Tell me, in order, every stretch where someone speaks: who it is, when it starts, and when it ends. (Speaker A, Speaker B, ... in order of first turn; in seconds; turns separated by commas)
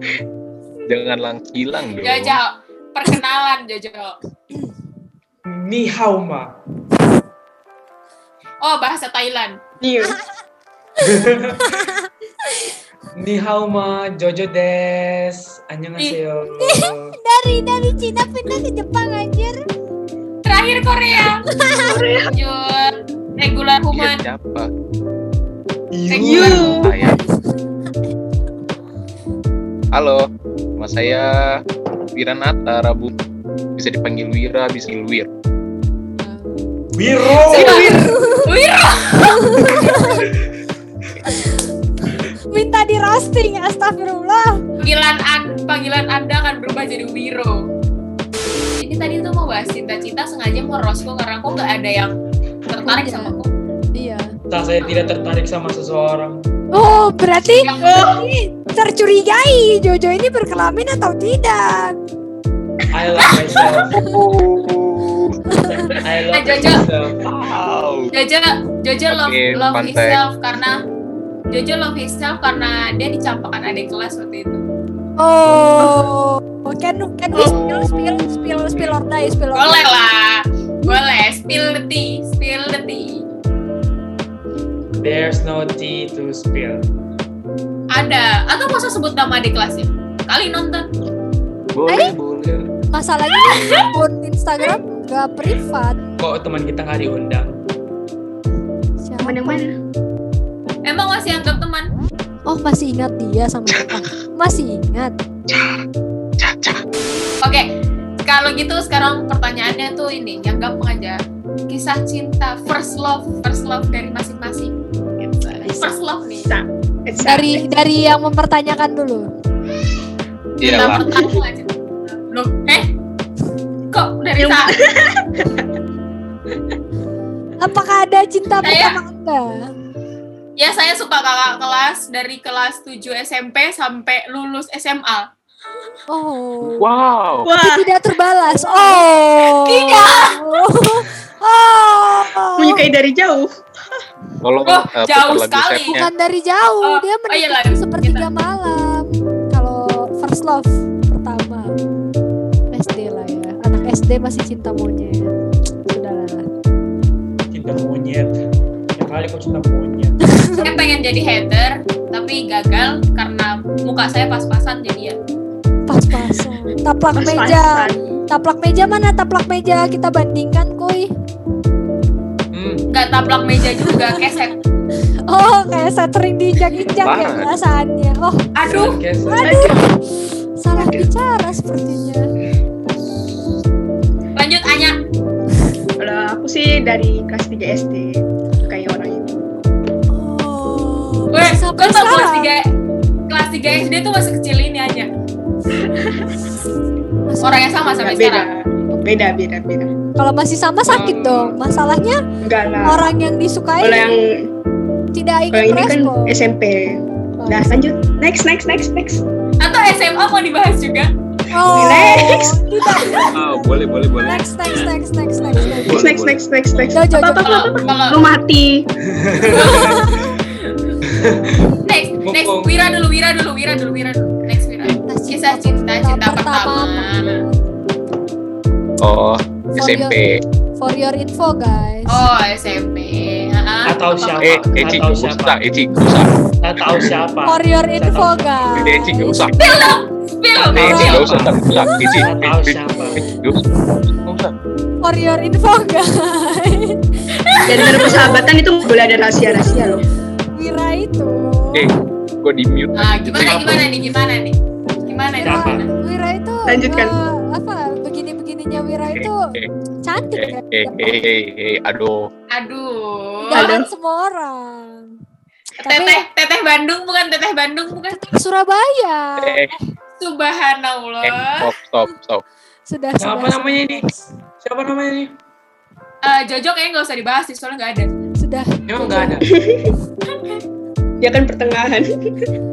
Speaker A: 0.9-2.4, Speaker B: 2.0-4.2, Speaker C: 5.5-6.5, Speaker B: 8.6-9.6, Speaker D: 9.8-10.2, Speaker C: 11.0-11.7, Speaker E: 11.6-12.1, Speaker C: 13.2-17.1, Speaker E: 16.4-19.7, Speaker B: 20.4-21.4, Speaker E: 21.5-22.0, Speaker D: 21.9-22.3, Speaker B: 22.3-24.2, Speaker A: 23.9-24.7, Speaker C: 25.9-26.9, Speaker B: 26.1-26.7, Speaker D: 26.2-26.9, Speaker A: 26.4-27.2, Speaker E: 27.0-27.2, Speaker A: 29.9-30.3, Speaker A: 30.8-31.6, Speaker A: 32.1-33.1, Speaker A: 33.8-35.3, Speaker E: 36.2-36.9, Speaker C: 37.0-37.9, Speaker B: 37.4-39.7, Speaker E: 37.6-38.5, Speaker D: 37.7-38.0, Speaker E: 39.2-40.3, Speaker E: 42.2-44.6, Speaker B: 44.8-47.7, Speaker B: 48.8-52.1, Speaker B: 52.7-53.5, Speaker E: 52.9-53.3, Speaker E: 54.0-54.3, Speaker C: 54.5-56.4, Speaker E: 56.7-62.0, Speaker B: 57.6-58.1, Speaker D: 57.8-58.2, Speaker C: 62.9-64.0, Speaker A: 64.0-66.0, Speaker E: 65.5-66.0, Speaker C: 66.0-67.3, Speaker B: 66.3-66.8, Speaker A: 67.2-68.1, Speaker B: 68.1-70.8, Speaker A: 69.1-70.2, Speaker B: 71.5-74.6, Speaker E: 75.2-79.8, Speaker A: 77.4-79.0, Speaker B: 79.5-83.2, Speaker C: 85.0-86.9, Speaker B: 87.9-90.9, Speaker A: 91.7-92.7, Speaker E: 91.9-92.1, Speaker E: 92.9-96.0, Speaker B: 93.5-93.9, Speaker C: 96.2-97.6, Speaker E: 99.0-99.6, Speaker D: 99.2-99.7, Speaker B: 100.8-101.9, Speaker E: 102.5-105.1, Speaker A: 105.5-105.8, Speaker A: 106.4-106.8, Speaker B: 107.4-107.7, Speaker B: 108.2-116.5, Speaker E: 115.6-115.9, Speaker D: 116.5-117.6, Speaker E: 117.2-119.3, Speaker A: 120.6-121.1, Speaker B: 120.6-122.9, Speaker D: 120.7-121.4, Speaker B: 123.9-124.8, Speaker D: 124.4-125.6, Speaker E: 127.6-129.5, Speaker B: 128.6-129.0, Speaker B: 130.6-135.3, Speaker E: 136.1-136.9, Speaker A: 136.7-137.5, Speaker D: 137.4-137.9, Speaker E: 137.6-142.8, Speaker B: 139.5-140.6, Speaker D: 142.6-143.5, Speaker A: 144.4-146.1, Speaker B: 144.7-146.0, Speaker E: 145.9-151.8, Speaker B: 146.8-148.2, Speaker E: 152.7-155.3, Speaker E: 155.9-156.5, Speaker C: 157.5-158.3, Speaker C: 159.0-160.2, Speaker E: 160.2-160.7, Speaker B: 160.6-165.2, Speaker E: 165.9-171.1, Speaker D: 167.2-168.2, Speaker C: 172.5-172.8, Speaker B: 172.9-174.5, Speaker E: 173.9-174.2, Speaker E: 175.3-178.5, Speaker A: 177.0-177.5, Speaker B: 178.6-179.0, Speaker C: 178.7-179.6, Speaker E: 179.3-180.0, Speaker D: 179.4-179.8, Speaker E: 180.6-182.2, Speaker D: 180.8-181.0, Speaker B: 184.3-185.0, Speaker D: 186.0-189.4, Speaker E: 190.1-192.5, Speaker B: 191.3-192.7, Speaker B: 193.3-195.1, Speaker D: 195.8-196.4, Speaker E: 197.3-197.7, Speaker B: 197.4-198.5, Speaker D: 197.9-199.9, Speaker E: 200.2-202.2, Speaker C: 200.9-201.6, Speaker D: 202.4-203.1, Speaker E: 202.8-204.1, Speaker D: 203.8-204.5, Speaker E: 205.1-206.4, Speaker D: 205.5-209.2, Speaker E: 207.4-207.8, Speaker B: 209.6-211.1, Speaker E: 211.5-216.1, Speaker D: 211.7-213.2, Speaker A: 213.3-214.5, Speaker A: 215.7-216.4, Speaker D: 215.9-218.9, Speaker E: 216.9-217.6, Speaker B: 217.4-218.3, Speaker C: 219.1-219.9, Speaker B: 219.5-221.0, Speaker E: 219.5-220.4, Speaker C: 221.1-222.7, Speaker B: 221.8-227.4, Speaker E: 225.1-227.5, Speaker A: 229.0-230.4, Speaker E: 229.8-230.2, Speaker E: 230.8-232.3, Speaker B: 232.1-234.8, Speaker C: 233.9-235.6, Speaker A: 234.4-236.3, Speaker C: 236.6-238.8, Speaker E: 237.5-239.9, Speaker A: 238.8-239.6, Speaker B: 239.6-241.3, Speaker E: 240.6-242.2, Speaker A: 240.7-244.5, Speaker C: 240.8-241.6, Speaker C: 242.2-243.2, Speaker E: 245.0-248.5, Speaker B: 247.3-248.4, Speaker D: 247.7-250.0, Speaker E: 249.4-250.0, Speaker E: 250.6-252.0, Speaker A: 251.7-253.9, Speaker B: 253.0-255.9, Speaker C: 253.3-253.9, Speaker C: 255.4-255.9, Speaker E: 255.4-259.5, Speaker D: 256.7-257.2, Speaker A: 259.1-259.7, Speaker E: 260.0-261.2, Speaker A: 260.4-262.3, Speaker B: 262.5-263.8, Speaker E: 263.5-265.1, Speaker D: 263.5-263.9, Speaker E: 265.8-266.2, Speaker B: 265.8-268.2, Speaker E: 268.1-269.8, Speaker A: 269.4-269.7, Speaker B: 270.2-271.7, Speaker A: 271.2-272.4, Speaker E: 272.9-274.3, Speaker C: 273.2-274.1, Speaker C: 274.6-275.3, Speaker B: 276.2-278.1, Speaker E: 278.4-279.5, Speaker C: 278.9-279.5, Speaker D: 279.5-279.9, Speaker B: 280.3-280.6, Speaker D: 281.2-282.1